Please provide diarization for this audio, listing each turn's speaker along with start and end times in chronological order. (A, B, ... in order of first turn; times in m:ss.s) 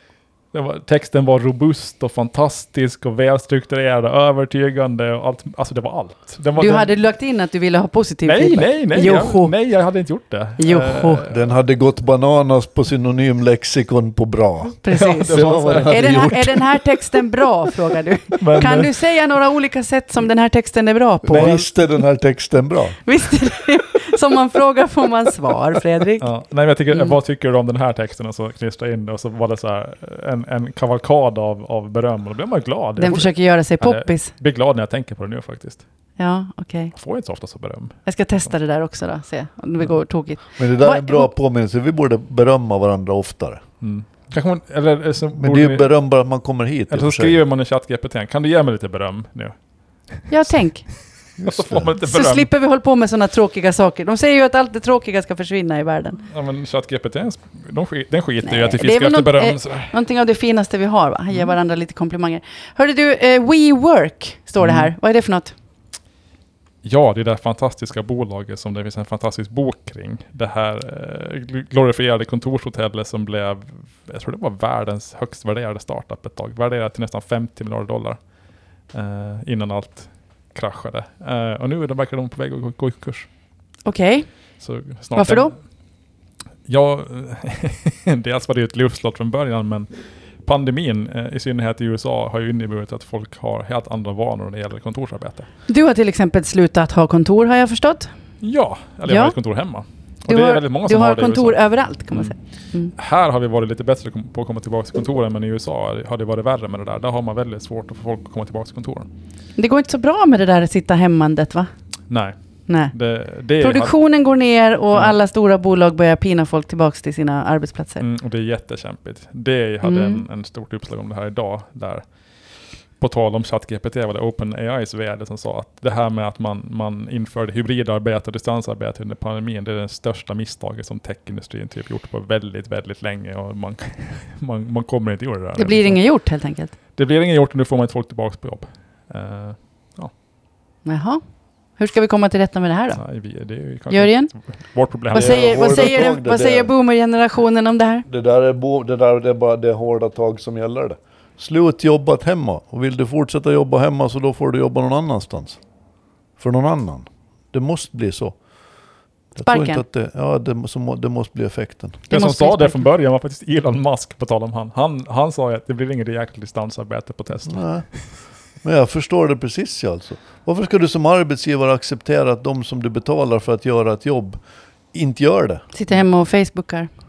0:00.5-0:06.9 A
0:06.6-0:09.5 B
0:08.2-0:11.5 A
0:10.6-0:11.2 B
0:11.3-0:16.7 C
0:14.8-0:21.7 B
0:14.9-0:16.5 A
0:18.4-0:18.9 A
0:21.3-0:23.0 C
0:21.3-0:21.6 A
0:23.0-0:26.3 B
0:26.2-0:35.8 A
0:33.0-0:34.3 B
0:36.2-0:36.9 B
0:36.9-0:38.0 A
0:38.0-0:41.3 B
0:40.6-0:43.6 C
0:43.8-0:45.9 A
0:45.4-0:47.4 C
0:46.9-0:49.6 A
0:50.1-0:50.6 A
0:50.3-0:50.8 B
0:51.4-0:51.9 C
0:51.4-0:52.5 A
0:52.0-0:56.2 B
0:56.3-0:59.9 A
0:58.4-1:05.5 B
1:04.6-1:04.9 A
1:06.8-1:18.2 A
1:18.9-1:23.3 A
1:23.8-1:24.3 B
1:24.6-1:25.6 A
1:25.1-1:25.5 B
1:26.7-1:29.9 A
1:30.4-1:35.5 A
1:35.7-1:38.1 B
1:38.4-1:42.3 A
1:39.1-1:39.3 B
1:40.3-1:42.9 B
1:43.0-1:49.1 A
1:49.6-1:51.7 B
1:52.1-1:52.3 A
1:52.7-1:52.9 B
1:52.9-1:53.9 A
1:53.6-1:58.0 B
1:58.0-2:02.0 A
1:59.8-2:00.2 B
2:03.0-2:16.0 A
2:15.6-2:16.7 B
2:17.0-2:20.1 A
2:20.8-2:21.2 B
2:21.8-2:23.0 B
2:23.0-2:26.0 A
2:23.9-2:24.3 B
2:25.1-2:28.0 B
2:25.1-2:26.7 C
2:28.0-2:35.6 C
2:36.4-2:38.4 C
2:39.3-2:42.0 C
2:39.4-2:39.8 B
2:42.1-2:42.8 B
2:42.1-2:47.6 A
2:47.4-2:47.9 C
2:48.6-2:54.4 C
2:54.9-2:55.6 C
2:55.7-2:56.9 B